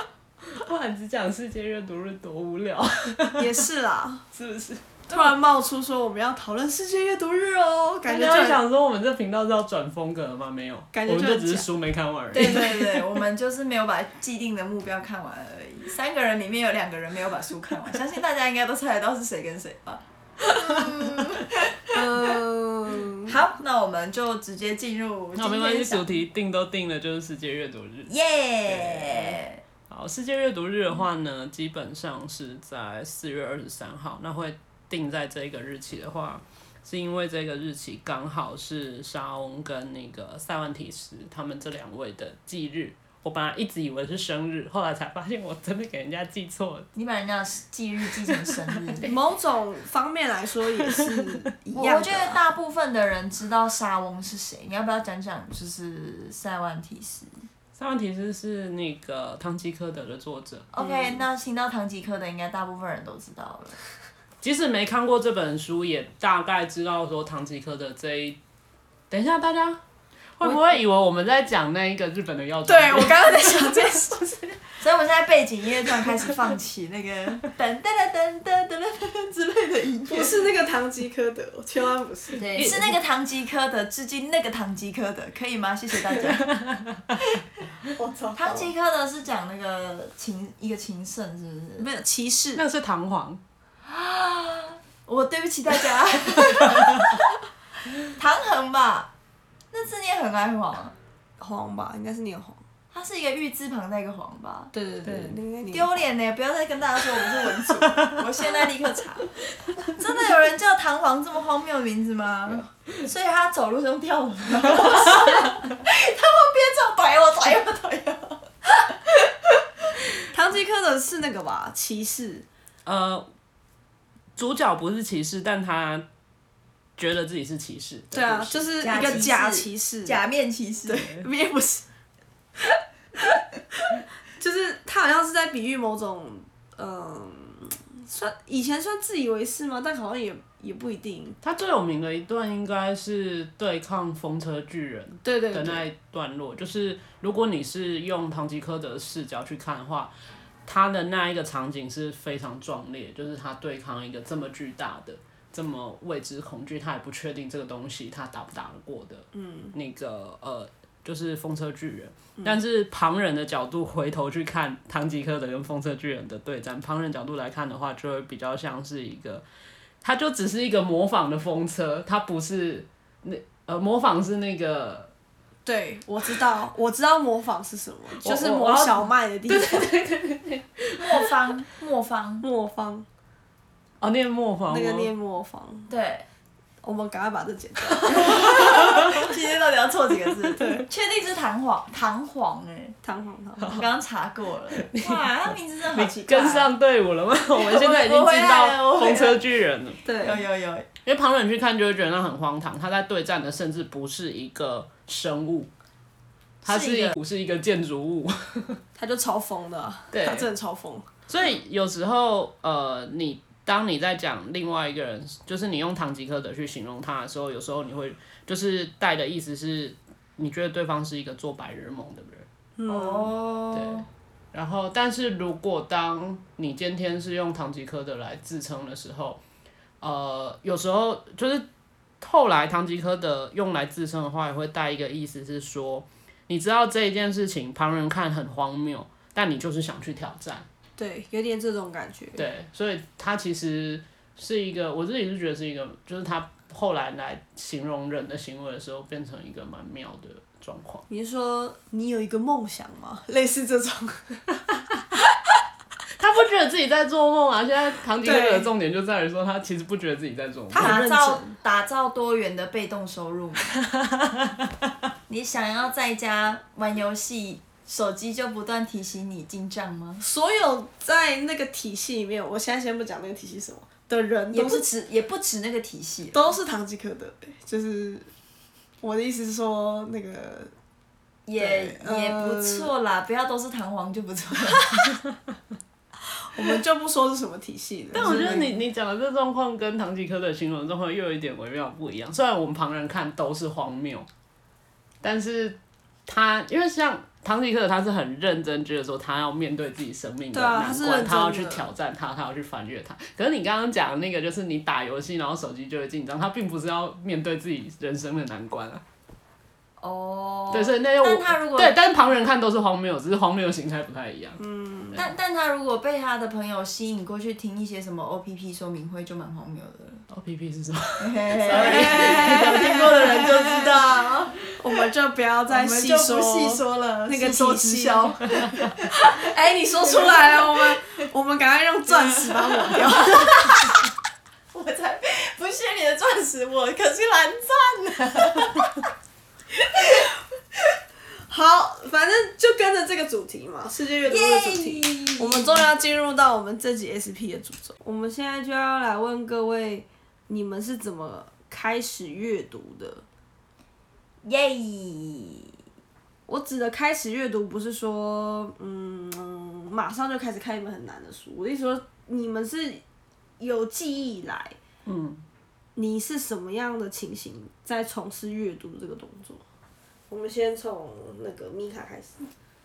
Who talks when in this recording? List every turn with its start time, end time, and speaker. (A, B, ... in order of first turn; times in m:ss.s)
0:00.5-0:03.6 A
0:03.4-0:04.2 B
0:04.3-0:05.3 A
0:05.1-0:08.6 B
0:08.0-0:12.8 A
0:10.9-0:11.7 B
0:12.3-0:22.4 C
0:12.3-0:13.0 B
0:21.9-0:23.3 B
0:23.2-0:26.2 C
0:25.4-0:28.1 A
0:28.1-0:29.6 C
0:28.7-0:29.4 A
0:29.9-0:46.9 A
0:46.9-0:49.1 C
0:48.4-0:49.2 A
0:49.0-0:52.4 B
0:50.8-0:51.5 A
0:51.7-0:57.3 C
0:57.8-1:00.7 A
1:00.7-1:03.8 C
1:00.8-1:01.2 B
1:04.4-1:08.4 A
1:09.1-1:09.8 A
1:10.4-1:13.9 A
1:12.7-1:14.6 B
1:14.8-1:20.4 C
1:20.1-1:22.6 B
1:22.4-1:26.5 C
1:22.5-1:22.9 A
1:26.5-1:27.1 A
1:27.9-1:28.7 B
1:28.4-1:31.9 C
1:31.8-1:32.6 B
1:32.6-1:33.4 A
1:33.8-1:37.2 C
1:38.0-1:39.1 C
1:39.7-1:40.9 C
1:41.4-1:42.6 B
1:42.9-1:44.7 C
1:44.7-1:45.9 B
1:45.0-1:45.4 A
1:45.7-1:58.5 C
2:00.3-2:02.5 B
2:02.8-2:03.2 A
2:04.4-2:06.0 A
2:07.0-2:08.7 A
2:08.1-2:10.2 B
2:08.8-2:11.1 C
2:10.9-2:11.8 B
2:10.9-2:11.2 A
2:13.8-2:21.4 B
2:21.4-2:30.1 A
2:25.2-2:25.8 B
2:30.7-2:49.4 A
2:39.3-2:39.7 B
2:50.0-2:55.1 A
2:55.7-2:59.9 B
2:58.2-3:01.3 A
3:01.0-3:02.5 C
3:02.4-3:03.0 B
3:04.0-3:05.1 A
3:04.7-3:05.9 B
3:05.9-3:06.2 C
3:06.8-3:09.2 B
3:08.1-3:13.0 C
3:08.1-3:09.2 A
3:10.6-3:10.8 B
3:13.0-3:13.8 B
3:13.6-3:13.8 A
3:13.7-3:16.7 C
3:14.7-3:20.0 A
3:17.5-3:19.4 C
3:20.0-3:20.4 B
3:20.2-3:20.9 C
3:21.0-3:25.7 A
3:26.6-3:28.8 A
3:26.7-3:27.2 C
3:29.0-3:31.2 B
3:30.1-3:30.5 A
3:31.3-3:42.5 A
3:42.8-3:43.3 B
3:42.9-3:44.0 C
3:43.7-3:49.4 A
3:50.0-3:51.7 A
3:52.2-4:00.7 A
4:01.0-4:02.5 B
4:02.4-4:11.0 A
4:11.1-4:14.4 B
4:16.2-4:21.0 A
4:18.2-4:18.7 B
4:20.7-4:21.5 B
4:20.8-4:23.7 C
4:23.9-4:24.5 A
4:25.3-4:30.2 C
4:30.2-4:34.9 B
4:34.5-4:36.6 C
4:36.3-4:38.3 B
4:39.0-4:40.7 B
4:41.5-4:45.1 C
4:41.6-4:42.9 B
4:46.5-4:48.6 B
4:48.1-4:54.3 A
4:48.2-4:48.8 C
4:55.2-5:09.0 A
5:00.5-5:01.8 B
5:10.0-5:12.0 C
5:10.7-5:14.6 A
5:14.6-5:15.2 B
5:15.1-5:20.2 C
5:20.3-5:23.3 A
5:21.2-5:24.6 C
5:21.6-5:24.0 B
5:24.8-5:28.4 B
5:25.7-5:29.5 C
5:29.2-5:33.9 B
5:30.0-5:31.2 C
5:32.2-5:33.9 C
5:34.7-5:38.9 C
5:40.0-5:40.3 C
5:41.5-5:53.2 B
5:44.2-5:45.9 C
5:54.4-5:55.7 C
5:56.5-6:03.0 B
6:03.6-6:04.8 B
6:05.0-6:05.4 A
6:06.0-6:09.6 B
6:10.3-6:12.5 B